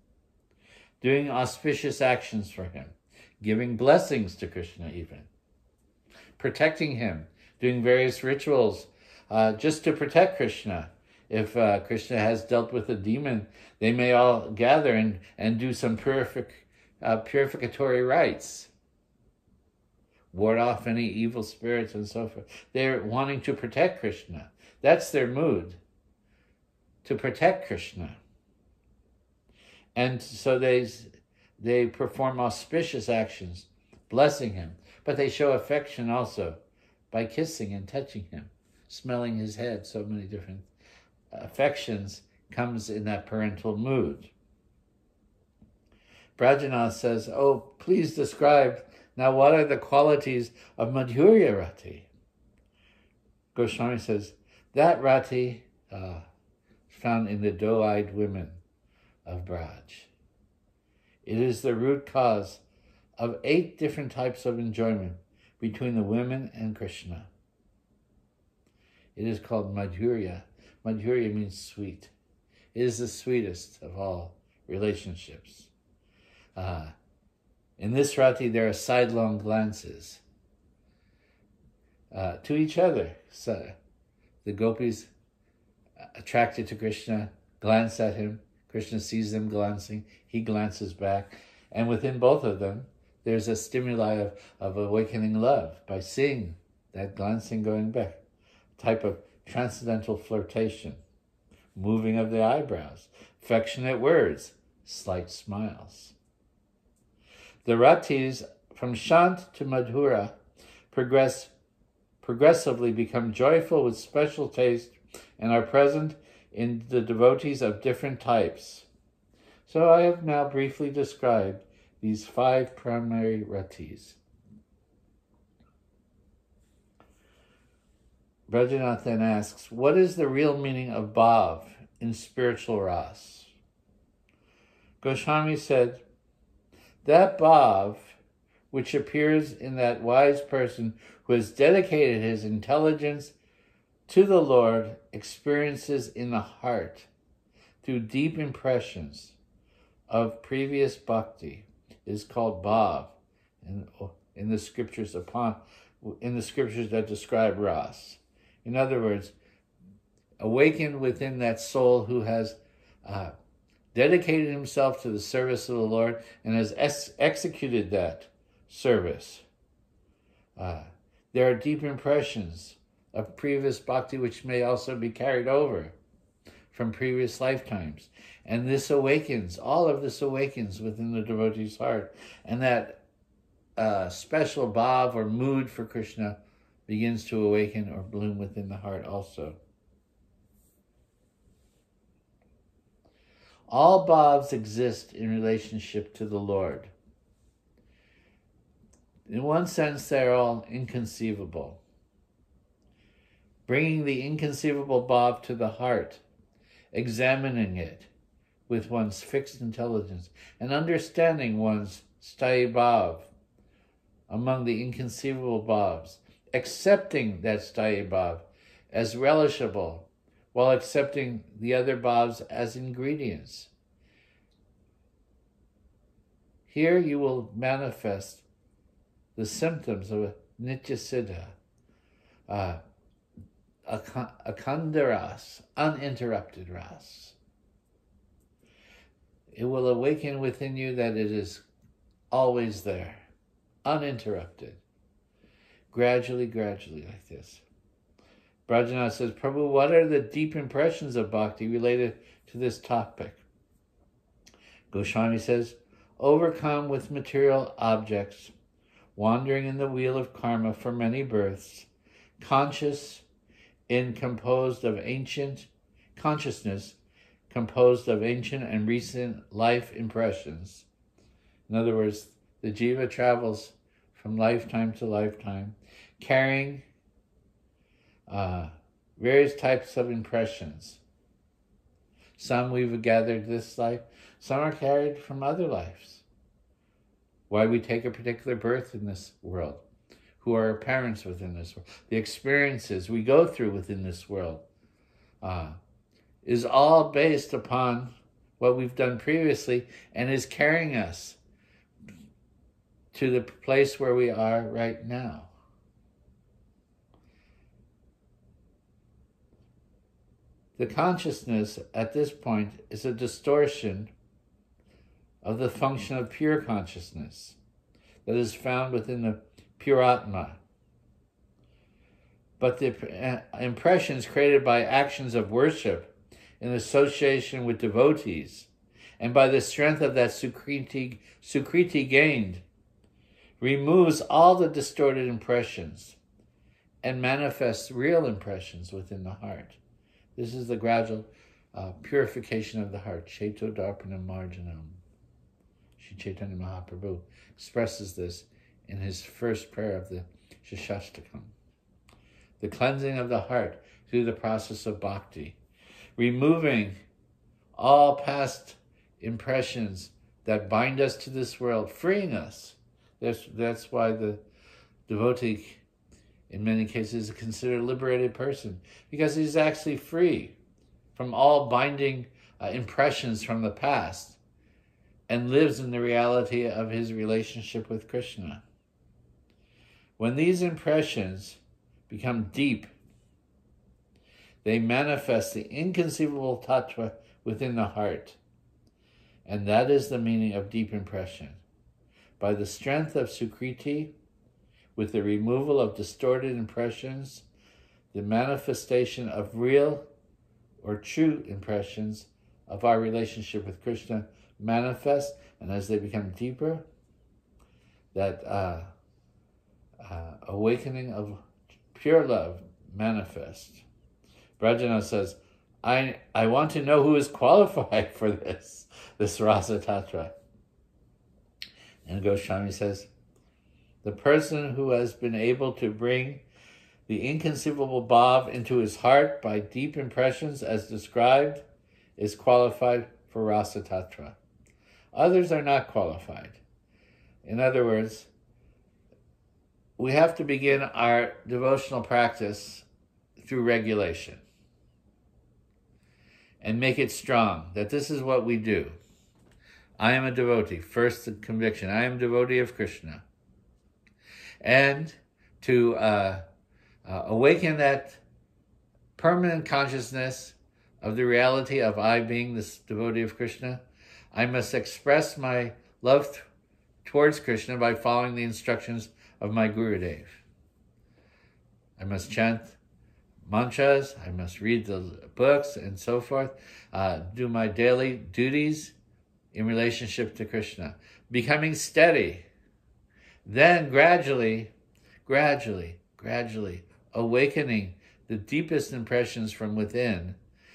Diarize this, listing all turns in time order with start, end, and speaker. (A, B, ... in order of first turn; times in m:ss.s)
0:01.0-0:05.3 A
0:06.4-0:18.7 A
0:20.3-0:25.8 A
0:27.0-0:28.2 A
0:30.0-0:36.6 A
0:37.1-0:40.7 A
0:41.3-0:44.3 A
0:46.4-0:52.1 A
0:53.6-0:56.3 A
0:56.9-0:58.6 A
0:59.2-1:00.1 A
1:01.2-1:02.6 A
1:03.2-1:07.3 A
1:09.2-1:12.1 A
1:12.7-1:15.7 A
1:16.6-1:16.9 A
1:17.8-1:20.2 A
1:22.1-1:23.8 A
1:24.4-1:25.1 A
1:26.2-1:38.2 A
1:38.8-1:41.0 A
1:41.8-1:46.2 A
1:47.6-1:50.4 A
1:50.9-1:51.5 A
1:52.2-1:58.9 A
1:59.6-2:04.2 A
2:08.5-2:13.5 A
2:15.0-2:16.0 A
2:17.0-2:18.2 A
2:18.7-2:23.4 A
2:24.1-2:27.1 A
2:27.8-2:29.4 A
2:30.1-2:39.4 A
2:40.4-2:43.3 A
2:43.9-2:49.4 A
2:50.6-2:56.0 A
2:56.7-3:03.0 A
3:03.8-3:09.6 A
3:13.7-3:16.9 A
3:19.3-3:21.8 A
3:23.7-3:26.2 A
3:26.9-3:28.1 A
3:28.7-3:33.3 A
3:34.3-3:43.7 A
3:46.7-3:48.4 A
3:49.4-3:51.6 A
3:52.5-3:52.8 A
3:53.9-3:57.4 A
3:59.5-4:01.6 A
4:02.3-4:03.2 A
4:03.8-4:04.8 A
4:05.9-4:07.6 A
4:08.7-4:13.4 A
4:14.9-4:18.5 A
4:19.1-4:21.9 A
4:22.4-4:23.2 A
4:23.9-4:27.0 A
4:27.5-4:30.9 A
4:31.7-4:36.8 A
4:38.3-4:41.0 A
4:42.4-4:46.2 A
4:47.5-4:49.8 A
4:50.4-4:54.6 A
4:55.4-4:55.8 A
4:56.4-5:01.4 A
5:03.1-5:05.5 A
5:10.8-5:14.1 A
5:15.4-5:17.6 A
5:18.2-5:20.6 A
5:22.6-5:28.7 A
5:29.2-5:32.6 A
5:33.6-5:36.2 A
5:37.0-5:39.8 A
5:40.4-5:45.0 A
5:46.0-5:51.5 A
5:52.6-5:55.6 A
5:56.2-5:57.0 A
5:57.8-6:04.4 A
6:05.1-6:05.8 A
6:06.5-6:10.6 A
6:11.1-6:14.4 A
6:15.3-6:18.6 A
6:20.2-6:22.9 A
6:24.6-6:28.4 A
6:29.5-6:31.6 A
6:32.4-6:34.1 A
6:35.0-6:37.5 A
6:38.1-6:40.1 A
6:40.8-6:46.9 A
6:48.1-6:48.9 A
6:50.0-6:51.4 A
6:51.9-6:53.8 A
6:54.6-7:00.3 A
7:02.0-7:03.1 A
7:04.0-7:06.4 A
7:07.1-7:11.6 A
7:12.2-7:14.4 A
7:15.1-7:16.6 A
7:17.4-7:18.3 A
7:20.0-7:22.9 A
7:23.4-7:24.4 A
7:26.6-7:29.0 A
7:30.0-7:33.2 A
7:34.6-7:36.4 A
7:37.0-7:38.2 A
7:39.1-7:43.8 A
7:44.3-7:46.5 A
7:47.0-7:50.4 A
7:52.0-7:52.8 A
7:53.4-7:59.0 A
7:59.5-8:02.5 A
8:03.4-8:04.7 A
8:05.2-8:10.4 A